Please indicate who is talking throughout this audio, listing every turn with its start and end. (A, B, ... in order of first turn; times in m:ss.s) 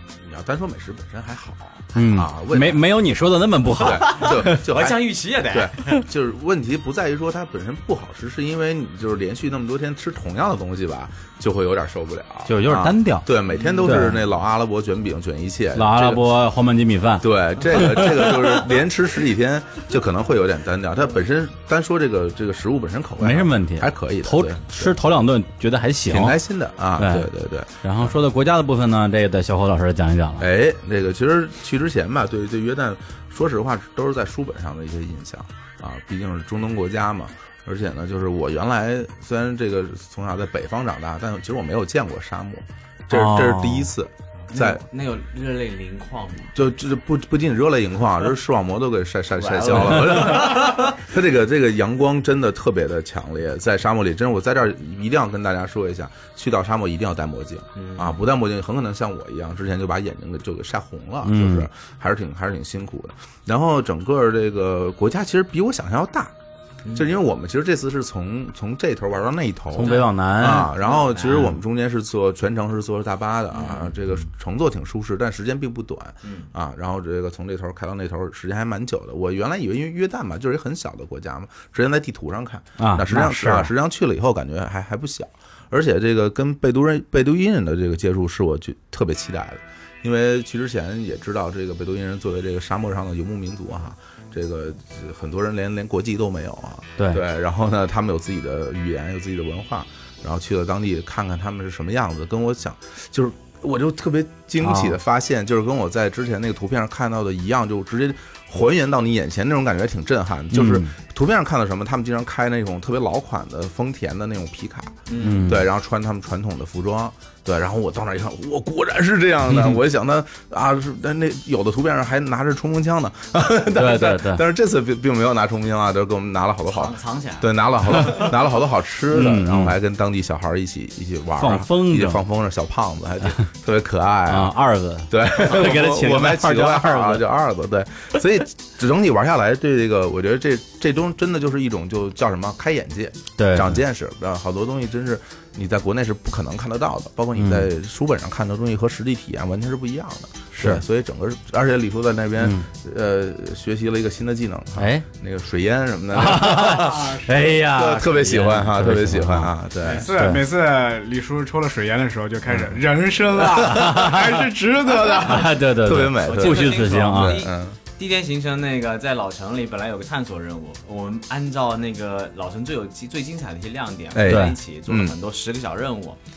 0:00.1-0:02.8 A
0:01.9-0:04.7 B
0:03.8-0:16.2 A
0:03.9-0:05.9 C
0:12.5-0:13.3 B
0:13.5-0:14.0 C
0:13.8-0:14.2 B
0:15.7-0:18.3 B
0:17.2-0:25.0 A
0:23.2-0:26.4 B
0:26.1-0:28.1 A
0:27.0-0:27.3 B
0:27.8-0:30.5 B
0:30.4-0:44.8 A
0:43.1-0:43.9 B
0:44.5-0:46.5 C
0:46.5-1:06.3 A
0:49.4-0:51.0 C
0:57.8-0:58.2 C
1:01.2-1:01.7 B
1:06.8-1:07.1 C
1:06.9-2:14.5 A
1:09.7-1:10.7 B
1:09.8-1:10.1 C
1:10.7-1:11.6 C
1:13.5-1:14.0 C
1:16.2-1:16.5 C
1:22.8-1:23.7 B
1:44.6-1:45.0 B
1:50.5-1:50.9 B
1:55.1-1:55.5 C
1:55.2-1:55.6 B
1:59.5-1:59.8 B
2:03.7-2:04.4 B
2:06.7-2:08.4 C
2:09.1-2:09.8 B
2:11.4-2:12.2 B
2:14.3-2:17.2 B
2:15.1-2:40.1 A
2:23.4-2:23.8 B
2:27.4-2:27.7 B
2:30.5-2:30.8 B
2:32.4-2:32.7 B
2:34.8-2:35.0 B
2:36.1-2:39.5 B
2:39.8-2:40.1 C
2:39.9-2:45.5 D
2:40.1-2:40.4 B
2:42.4-2:42.8 A
2:43.6-2:44.4 B
2:45.1-2:47.4 B
2:45.8-2:47.8 A
2:46.2-2:56.2 C
2:54.1-2:55.1 A
2:54.2-2:54.6 B